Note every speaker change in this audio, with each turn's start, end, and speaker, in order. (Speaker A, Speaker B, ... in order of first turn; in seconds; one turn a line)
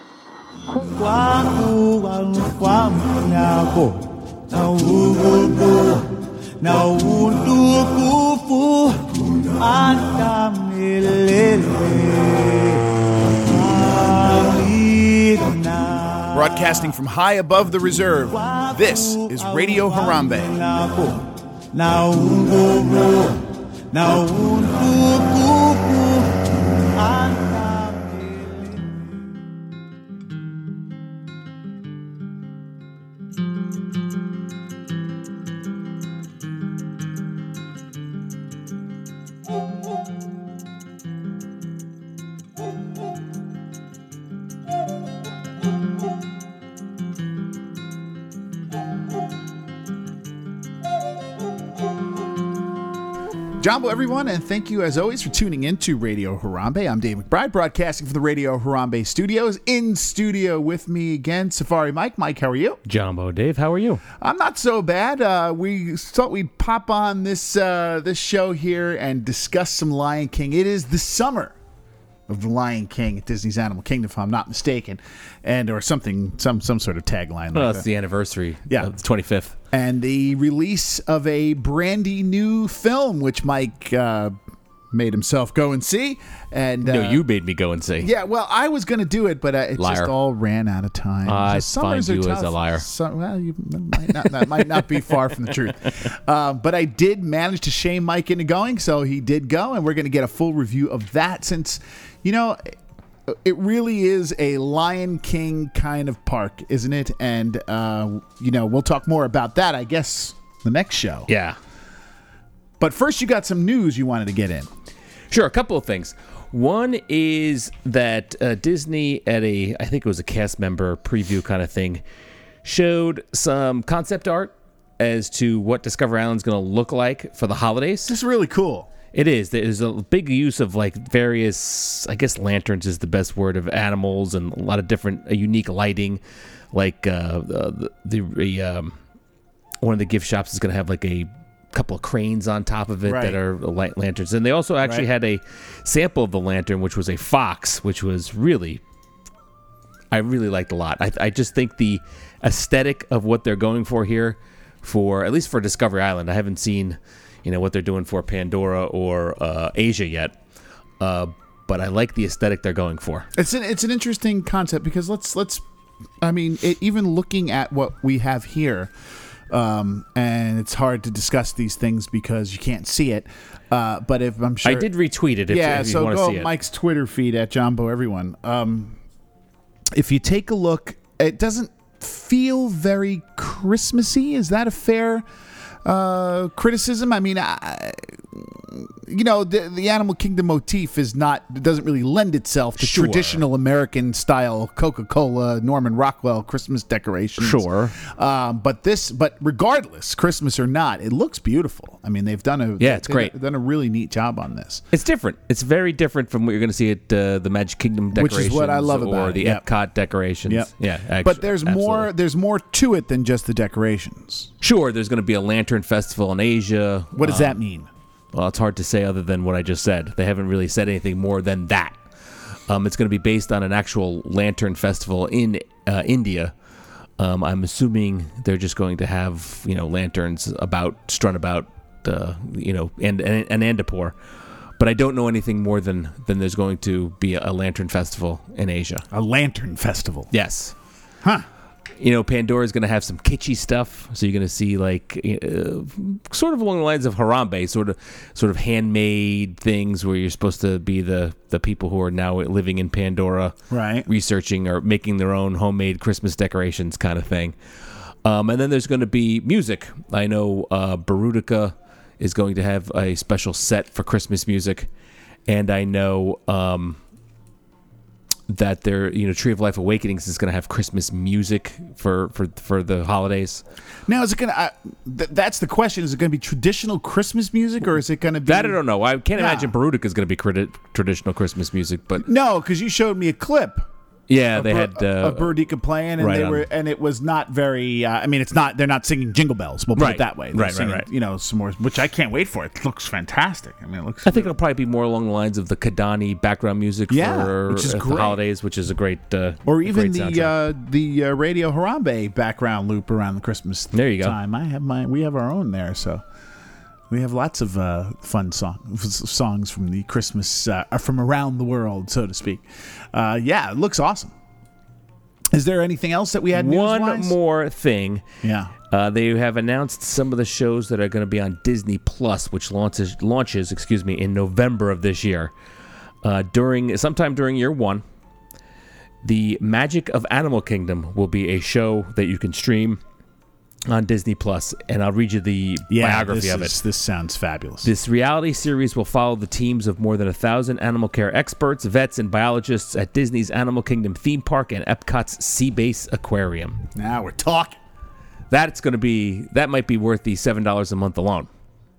Speaker A: 0.7-16.8
Speaker B: 16.3-20.5
Speaker A: 18.3-29.3
Speaker B: 53.6-62.8
Speaker C: 62.8-64.0
Speaker B: 64.2-71.5
Speaker B: 72.3-77.9
Speaker C: 77.5-79.5
Speaker B: 79.5-84.3
Speaker B: 84.9-87.2
Speaker C: 86.8-88.1
Speaker B: 88.0-102.7
Speaker C: 89.8-90.1
Speaker C: 91.2-92.8
Speaker C: 94.2-94.9
Speaker B: 103.3-111.3
Speaker C: 111.3-111.6
Speaker B: 112.8-114.7
Speaker C: 115.3-122.0
Speaker C: 122.6-128.1
Speaker B: 128.1-128.9
Speaker C: 129.1-136.2
Speaker C: 136.7-138.9
Speaker C: 139.8-148.8
Speaker B: 143.0-143.4
Speaker B: 144.8-145.1
Speaker C: 150.1-160.4
Speaker C: 161.0-163.3
Speaker B: 163.3-165.6
Speaker B: 166.2-168.9
Speaker B: 169.5-174.9
Speaker C: 174.6-176.5
Speaker B: 175.5-179.0
Speaker B: 179.9-185.2
Speaker B: 185.8-204.8
Speaker C: 192.8-193.4
Speaker C: 197.4-197.9
Speaker C: 202.8-203.3
Speaker C: 204.9-212.1
Speaker B: 208.1-209.6
Speaker B: 211.2-214.5
Speaker C: 214.6-217.6
Speaker B: 217.1-217.9
Speaker C: 218.3-222.0
Speaker C: 222.7-226.5
Speaker C: 227.2-234.1
Speaker C: 234.8-239.0
Speaker B: 239.1-240.3
Speaker C: 240.3-240.7
Speaker C: 242.0-257.6
Speaker B: 253.7-254.1
Speaker C: 258.2-264.9
Speaker C: 265.5-267.0
Speaker C: 268.5-273.6
Speaker B: 274.1-278.8
Speaker C: 278.4-282.3
Speaker B: 279.4-279.7
Speaker B: 282.2-283.9
Speaker C: 284.3-285.5
Speaker B: 284.5-294.5
Speaker C: 286.2-286.7
Speaker C: 289.9-291.1
Speaker C: 294.2-300.5
Speaker B: 297.1-298.4
Speaker B: 299.6-306.2
Speaker C: 303.9-304.4
Speaker B: 307.1-314.3
Speaker B: 315.5-317.4
Speaker C: 316.5-318.2
Speaker B: 318.4-318.7
Speaker C: 318.9-325.5
Speaker C: 326.2-328.0
Speaker C: 329.2-333.0
Speaker C: 333.9-336.8
Speaker B: 335.9-337.9
Speaker C: 337.8-346.8
Speaker B: 346.9-347.8
Speaker C: 348.5-351.5